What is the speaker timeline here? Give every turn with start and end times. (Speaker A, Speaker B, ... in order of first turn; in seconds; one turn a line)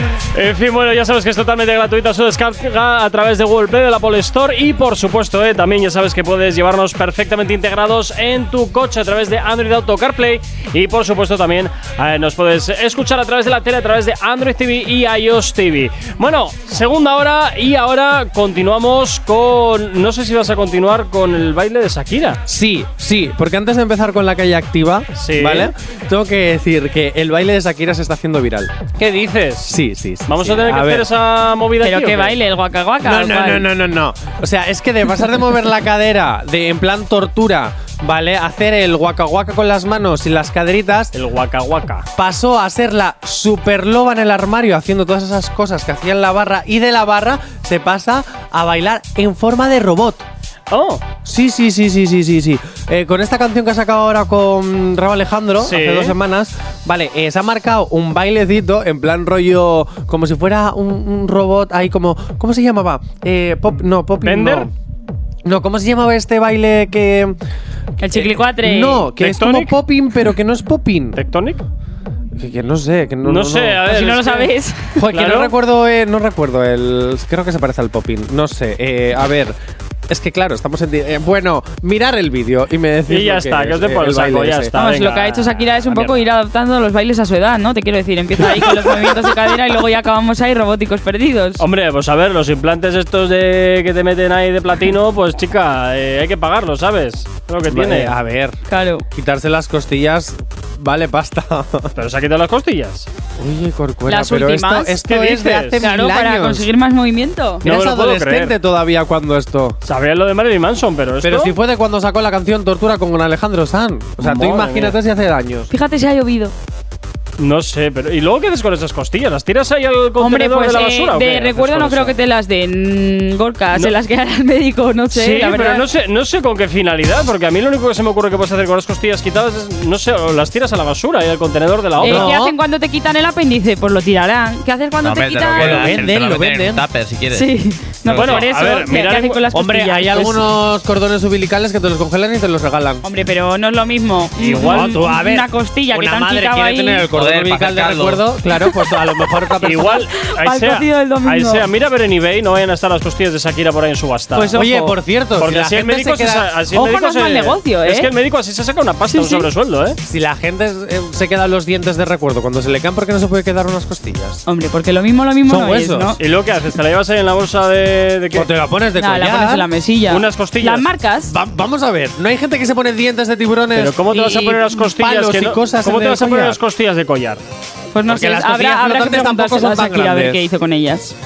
Speaker A: 0.3-22.4
Speaker B: 22.4-28.7
Speaker A: 25.2-25.7
Speaker A: 29.0-32.4
Speaker B: 29.6-31.1
Speaker C: 31.8-33.7
Speaker B: 33.0-41.1
Speaker A: 41.1-42.0
Speaker B: 42.1-50.3
Speaker A: 50.7-51.0
Speaker B: 51.2-64.7
Speaker A: 55.6-56.1
Speaker A: 64.2-64.7
Speaker B: 65.4-67.3
Speaker C: 68.0-69.1
Speaker B: 68.1-71.2
Speaker A: 69.2-69.8
Speaker A: 71.2-71.6
Speaker B: 72.3-74.1
Speaker A: 73.2-74.5
Speaker C: 73.8-74.9
Speaker B: 75.0-79.5
Speaker A: 75.1-75.5
Speaker B: 80.1-84.7
Speaker A: 83.1-86.2
Speaker C: 84.7-91.6
Speaker A: 91.6-98.1
Speaker B: 97.7-98.6
Speaker C: 98.7-99.0
Speaker B: 99.1-101.9
Speaker A: 101.9-103.1
Speaker B: 103.4-106.7
Speaker C: 104.1-105.0
Speaker A: 105.0-105.8
Speaker C: 105.8-107.6
Speaker A: 107.6-108.5
Speaker B: 107.6-109.8
Speaker A: 109.8-111.5
Speaker B: 111.2-115.7
Speaker A: 114.2-115.0
Speaker C: 115.7-116.5
Speaker A: 117.4-122.1
Speaker C: 120.2-125.8
Speaker A: 125.1-132.3
Speaker C: 132.0-136.0
Speaker B: 132.0-132.6
Speaker D: 135.0-137.5
Speaker B: 135.6-136.8
Speaker C: 137.3-140.4
Speaker D: 138.0-138.5
Speaker A: 138.1-139.4
Speaker B: 139.5-143.0
Speaker C: 143.0-147.1
Speaker A: 144.4-144.9
Speaker B: 144.6-150.0
Speaker D: 147.1-148.2
Speaker A: 149.6-154.5
Speaker C: 149.7-151.7
Speaker C: 154.3-154.9
Speaker B: 154.4-156.5
Speaker A: 155.4-160.0
Speaker C: 156.7-158.1
Speaker C: 159.1-159.5
Speaker B: 160.0-164.4
Speaker C: 164.4-166.2
Speaker B: 165.4-166.2
Speaker A: 166.2-168.5
Speaker B: 168.3-169.7
Speaker C: 169.0-171.3
Speaker A: 170.1-170.8
Speaker B: 171.2-176.6
Speaker A: 173.7-177.4
Speaker C: 174.1-174.6
Speaker C: 177.9-181.1
Speaker B: 178.1-180.4